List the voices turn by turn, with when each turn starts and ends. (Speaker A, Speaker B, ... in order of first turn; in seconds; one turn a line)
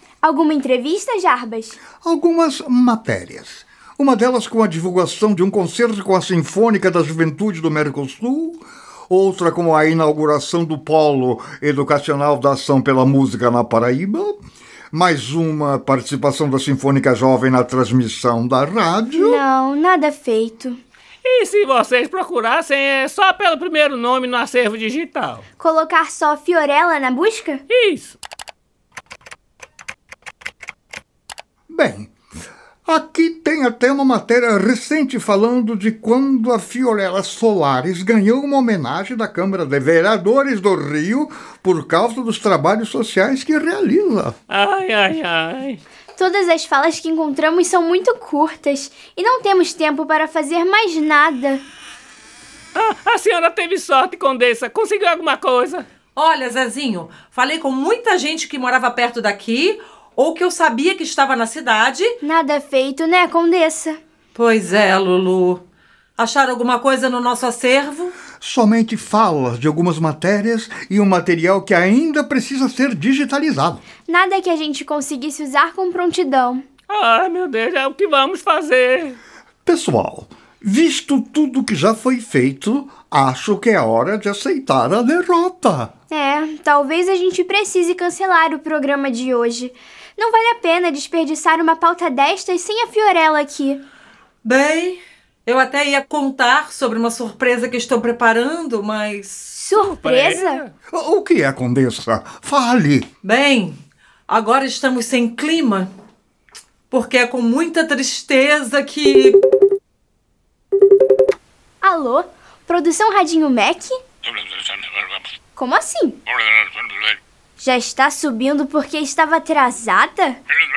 Speaker A: 0.2-1.8
Speaker B: 2.0-14.4
Speaker B: 14.9-19.4
Speaker A: 19.2-20.8
Speaker C: 21.2-25.4
Speaker A: 25.6-27.6
Speaker C: 27.7-28.2
Speaker B: 31.7-32.1
Speaker B: 32.9-44.4
Speaker C: 44.5-45.8
Speaker A: 46.2-51.6
Speaker C: 52.8-55.9
Speaker D: 56.2-62.1
Speaker A: 62.2-64.0
Speaker D: 64.4-65.6
Speaker D: 66.2-68.2
Speaker B: 68.4-73.8
Speaker A: 74.1-76.7
Speaker C: 76.9-79.2
Speaker B: 79.7-85.9
Speaker A: 86.1-93.8
Speaker D: 94.4-99.5
Speaker A: 99.6-100.6
Speaker C: 99.8-100.7
Speaker B: 100.9-103.1
Speaker D: 103.2-105.9
Speaker D: 106.9-109.4
Speaker A: 111.8-114.0
Speaker B: 114.6-115.1
Speaker A: 115.6-116.2
Speaker A: 117.6-120.4